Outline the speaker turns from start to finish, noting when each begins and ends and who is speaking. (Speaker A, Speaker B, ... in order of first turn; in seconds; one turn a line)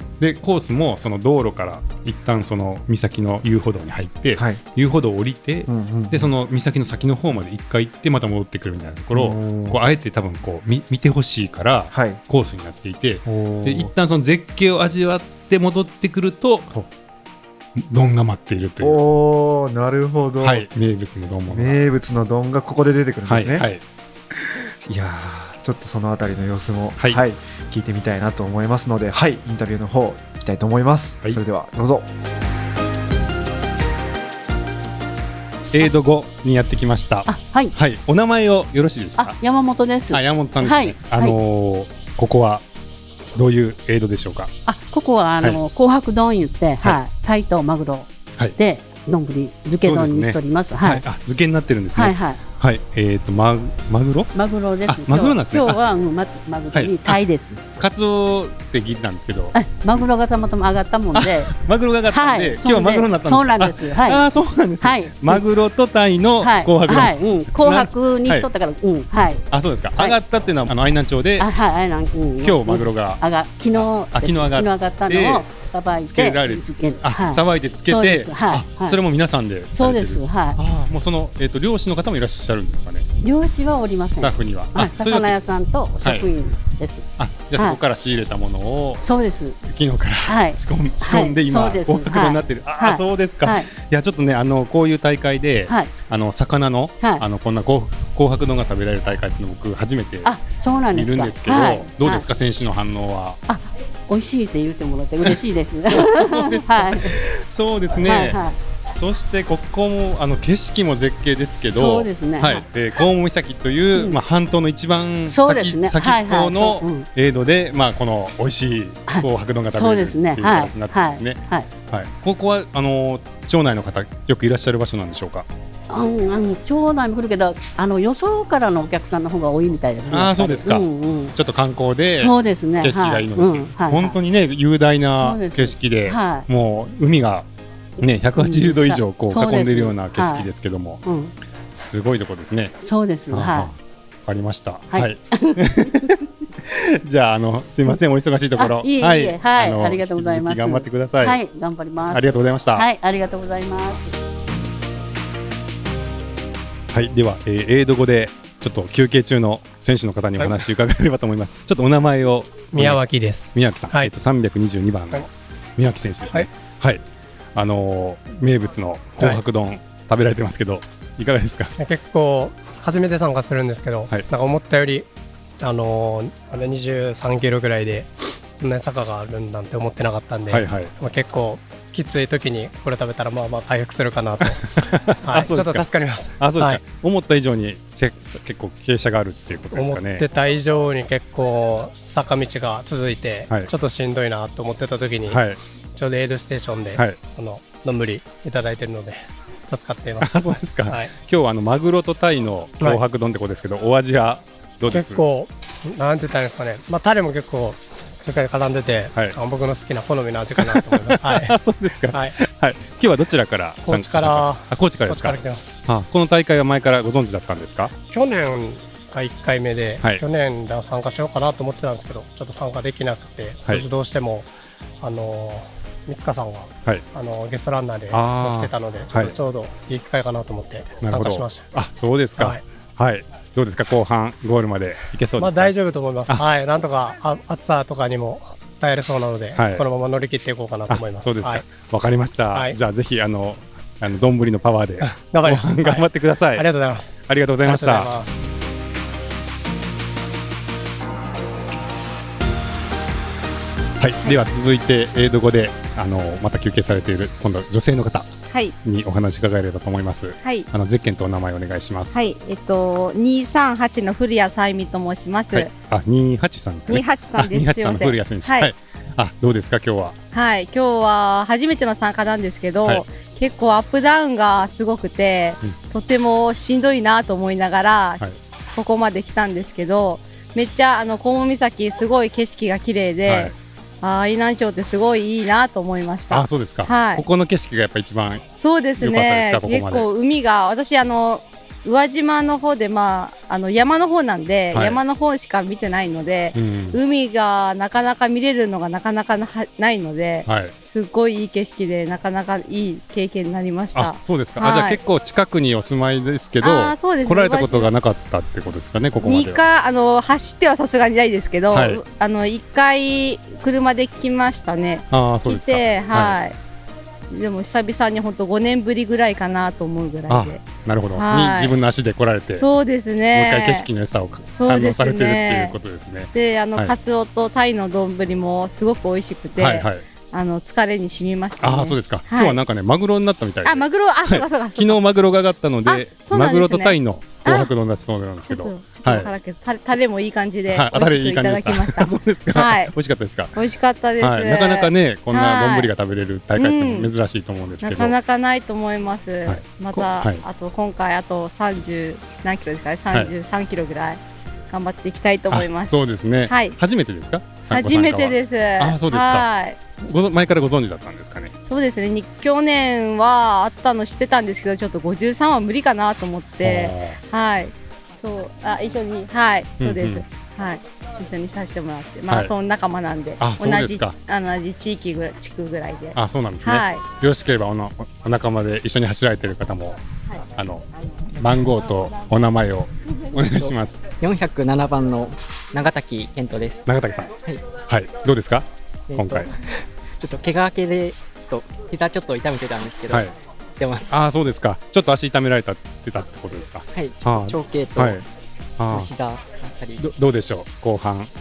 Speaker A: 0.2-16.7
Speaker B: 4.4-4.6
Speaker B: 5.7-6.3
Speaker B: 9.1-9.8
Speaker B: 11.9-12.2
Speaker B: 13.2-13.9
Speaker A: 17.8-19.0
Speaker B: 18.8-20.7
Speaker A: 20.4-21.8
Speaker B: 21.5-23.7
Speaker A: 23.3-23.8
Speaker B: 24.9-32.1
Speaker A: 35.7-39.4
Speaker C: 37.3-37.8
Speaker C: 39.2-41.4
Speaker A: 40.1-42.6
Speaker A: 43.4-44.5
Speaker C: 44.7-51.0
Speaker A: 49.8-54.3
Speaker C: 51.9-52.4
Speaker C: 54.3-57.6
Speaker A: 54.9-55.8
Speaker A: 56.7-57.2
Speaker A: 57.8-60.0
Speaker C: 59.5-61.5
Speaker A: 61.1-68.5
Speaker C: 62.1-64.2
Speaker C: 64.8-65.4
Speaker C: 66.4-70.2
Speaker A: 69.5-71.5
Speaker C: 71.4-79.0
Speaker A: 72.4-73.2
Speaker A: 73.7-75.5
Speaker A: 76.0-83.1
Speaker C: 79.7-80.6
Speaker C: 83.2-87.8
Speaker A: 84.0-85.4
Speaker A: 86.0-86.3
Speaker A: 87.2-89.0
Speaker C: 89.0-89.6
Speaker A: 89.6-100.4
Speaker C: 90.2-93.7
Speaker C: 100.2-102.2
Speaker A: 100.9-103.4
Speaker C: 103.5-107.2
Speaker A: 105.9-121.4
Speaker C: 108.0-108.6
Speaker C: 111.6-112.7
Speaker C: 115.3-117.0
Speaker C: 119.1-121.7
Speaker A: 121.9-125.5
Speaker C: 125.9-131.3
Speaker A: 130.1-137.4
Speaker C: 132.1-134.2
Speaker C: 135.1-136.4
Speaker A: 138.0-141.0
Speaker C: 138.0-140.5
Speaker C: 141.0-141.3
Speaker A: 141.7-142.8
Speaker C: 142.8-143.7
Speaker A: 143.3-143.8
Speaker A: 144.2-151.4
Speaker C: 144.9-145.9
Speaker C: 148.6-154.1
Speaker A: 152.1-152.9
Speaker A: 156.9-167.0
Speaker D: 162.7-164.1
Speaker A: 167.5-171.8
Speaker D: 171.8-175.1
Speaker D: 175.6-184.7
Speaker A: 180.5-180.9
Speaker A: 184.5-190.3
Speaker D: 185.2-186.8
Speaker D: 189.7-195.4
Speaker A: 195.3-195.6
Speaker D: 195.9-201.1
Speaker A: 200.2-205.2
Speaker D: 204.9-211.6
Speaker A: 210.6-217.9
Speaker D: 212.1-212.4
Speaker D: 213.8-215.7
Speaker D: 218.1-224.5
Speaker D: 225.0-231.7
Speaker A: 228.1-229.3
Speaker A: 231.0-235.8
Speaker D: 232.4-232.6
Speaker D: 235.4-241.7
Speaker A: 239.5-239.8
Speaker A: 240.9-246.7
Speaker D: 245.0-248.4
Speaker A: 247.2-248.1
Speaker A: 254.0-258.3
Speaker A: 258.8-262.2
Speaker E: 262.1-265.7
Speaker A: 265.5-270.2
Speaker E: 266.9-268.7
Speaker E: 270.3-278.2
Speaker E: 278.8-287.2
Speaker A: 283.2-283.5
Speaker A: 286.3-288.4
Speaker E: 288.6-305.0
Speaker A: 289.0-290.1
Speaker A: 294.7-295.0
Speaker A: 296.5-297.0
Speaker A: 300.4-300.7
Speaker A: 303.9-309.6
Speaker E: 306.6-307.9
Speaker E: 308.7-316.6
Speaker A: 311.7-312.0
Speaker A: 315.1-316.4
Speaker E: 317.3-320.6
Speaker A: 320.3-322.7
Speaker E: 321.1-321.8
Speaker E: 322.5-323.9
Speaker A: 323.3-326.9
Speaker E: 324.5-325.8
Speaker E: 326.3-332.6
Speaker A: 329.6-330.0
Speaker A: 331.6-339.3
Speaker E: 333.6-335.0
Speaker E: 335.9-337.7
Speaker E: 338.5-342.9
Speaker A: 340.7-343.5
Speaker E: 343.6-345.9
Speaker A: 344.2-348.1
Speaker E: 346.6-347.1
Speaker E: 347.8-356.8
Speaker A: 349.4-350.4
Speaker A: 355.5-359.5
Speaker E: 357.7-359.8
Speaker A: 360.0-361.5
Speaker E: 361.6-377.0
Speaker A: 366.6-367.2
Speaker A: 369.8-370.2
Speaker A: 373.4-374.1
Speaker A: 376.1-380.0
Speaker A: 380.6-384.0
Speaker F: 383.5-386.8
Speaker A: 386.9-387.3
Speaker A: 387.9-389.5
Speaker F: 389.1-393.2
Speaker A: 393.1-393.3
Speaker F: 393.8-394.2
Speaker A: 394.1-398.2
Speaker F: 396.9-398.2
Speaker A: 398.8-399.1
Speaker F: 398.9-400.0
Speaker A: 400.0-401.3